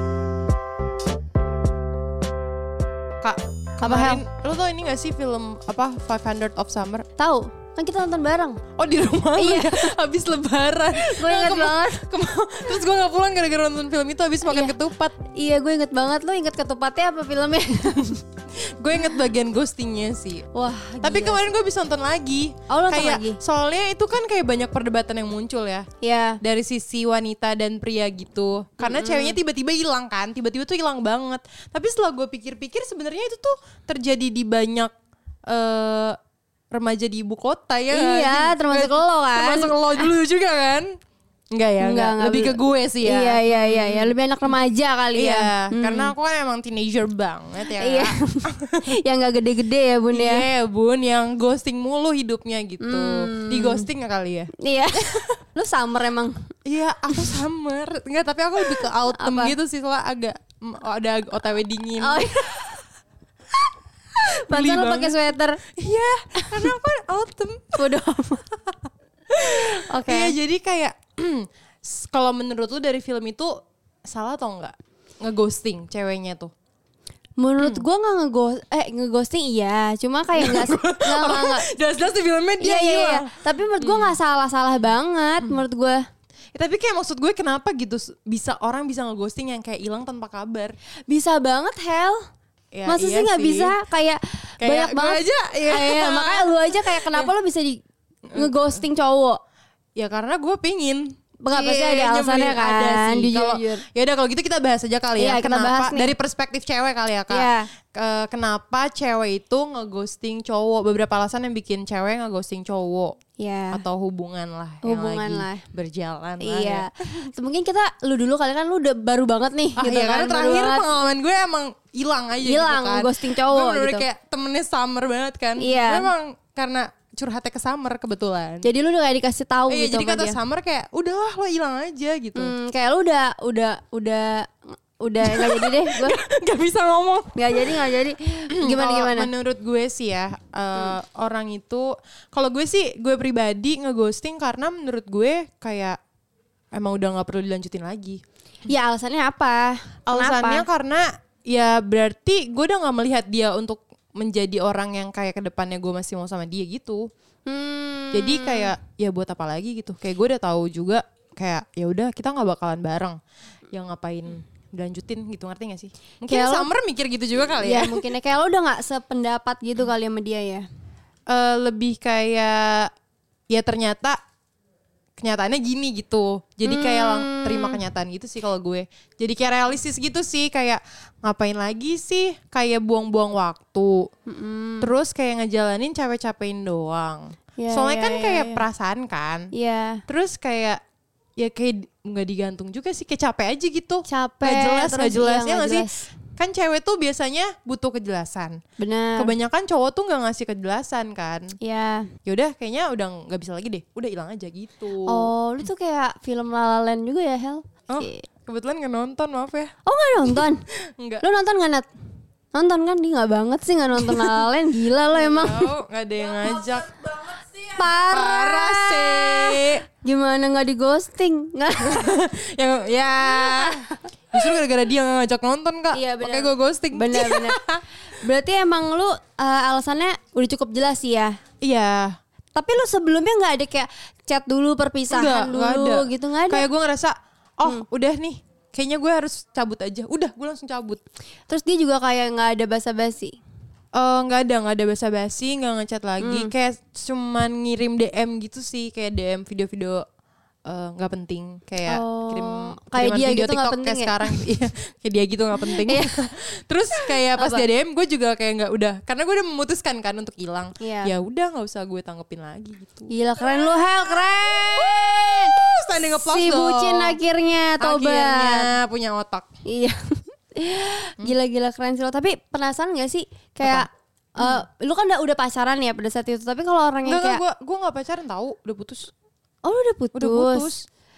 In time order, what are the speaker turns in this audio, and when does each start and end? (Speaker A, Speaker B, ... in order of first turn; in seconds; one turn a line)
Speaker A: 3.2-7.1
Speaker B: 3.8-4.2
Speaker B: 7.2-8.6
Speaker A: 8.8-15.1
Speaker B: 9.4-9.9
Speaker B: 10.9-12.0
Speaker B: 15.2-18.2
Speaker A: 18.8-20.5
Speaker B: 20.5-21.4
Speaker A: 21.0-25.9
Speaker B: 22.7-23.4
Speaker B: 26.0-26.4
Speaker A: 26.4-34.9
Speaker B: 28.8-29.4
Speaker A: 35.5-36.2
Speaker A: 36.7-40.9
Speaker B: 37.9-40.1
Speaker A: 41.5-44.5
Speaker B: 41.8-46.1
Speaker A: 45.1-48.9
Speaker B: 47.7-50.5
Speaker A: 50.1-55.4
Speaker B: 52.8-53.9
Speaker B: 54.6-56.4
Speaker A: 56.6-62.7
Speaker B: 57.1-57.4
Speaker B: 58.6-59.5
Speaker B: 62.0-62.7
Speaker B: 64.5-65.6
Speaker A: 64.5-65.2
Speaker A: 65.8-67.9
Speaker B: 66.4-66.7
Speaker B: 67.8-68.4
Speaker A: 69.3-76.5
Speaker B: 69.5-70.3
Speaker B: 77.4-81.7
Speaker A: 77.6-77.8
Speaker A: 80.3-84.2
Speaker B: 82.6-86.0
Speaker A: 86.5-90.7
Speaker B: 91.1-92.2
Speaker A: 92.7-93.7
Speaker B: 92.9-97.8
Speaker A: 94.6-97.3
Speaker A: 98.3-98.8
Speaker B: 98.3-99.4
Speaker A: 100.0-113.2
Speaker B: 101.4-103.8
Speaker B: 105.2-106.1
Speaker B: 107.3-107.7
Speaker B: 113.4-113.8
Speaker A: 113.7-116.8
Speaker B: 114.8-115.6
Speaker B: 116.4-120.9
Speaker A: 119.8-128.7
Speaker B: 122.4-124.0
Speaker B: 125.6-126.1
Speaker B: 128.6-130.4
Speaker A: 129.7-132.5
Speaker B: 132.3-136.2
Speaker A: 135.2-137.8
Speaker B: 137.3-139.3
Speaker A: 138.5-146.0
Speaker A: 146.7-148.2
Speaker B: 148.7-150.6
Speaker A: 150.1-157.1
Speaker B: 157.4-158.7
Speaker A: 158.1-163.2
Speaker A: 163.7-168.0
Speaker B: 166.3-166.7
Speaker B: 167.6-170.7
Speaker A: 171.3-172.9
Speaker A: 173.5-174.2
Speaker A: 175.2-184.1
Speaker B: 176.6-177.8
Speaker B: 184.3-184.9
Speaker A: 184.8-189.5
Speaker B: 187.6-188.6
Speaker B: 189.5-190.0
Speaker A: 190.1-190.8
Speaker A: 191.4-198.6
Speaker B: 194.1-196.1
Speaker B: 198.8-199.3
Speaker A: 199.2-201.6
Speaker B: 201.6-202.1
Speaker A: 202.2-205.3
Speaker B: 205.1-208.2
Speaker A: 207.9-209.7
Speaker B: 209.8-210.6
Speaker A: 211.0-211.2
Speaker B: 211.2-211.9
Speaker B: 212.5-215.7
Speaker A: 214.0-214.4
Speaker A: 215.1-219.8
Speaker B: 217.7-222.2
Speaker A: 221.8-227.8
Speaker B: 223.3-223.7
Speaker B: 225.9-227.6
Speaker B: 228.2-231.4
Speaker A: 231.6-232.2
Speaker B: 232.5-236.7
Speaker A: 235.1-241.0
Speaker B: 241.5-243.4
Speaker A: 243.9-250.0
Speaker B: 246.2-246.5
Speaker A: 250.7-267.2
Speaker B: 251.9-254.4
Speaker B: 255.6-256.1
Speaker B: 257.0-257.6
Speaker B: 260.8-261.1
Speaker B: 263.1-265.6
Speaker B: 266.1-268.7
Speaker A: 267.8-269.5
Speaker B: 269.6-277.4
Speaker A: 274.4-274.6
Speaker A: 277.1-279.1
Speaker B: 279.6-280.7
Speaker A: 280.1-280.9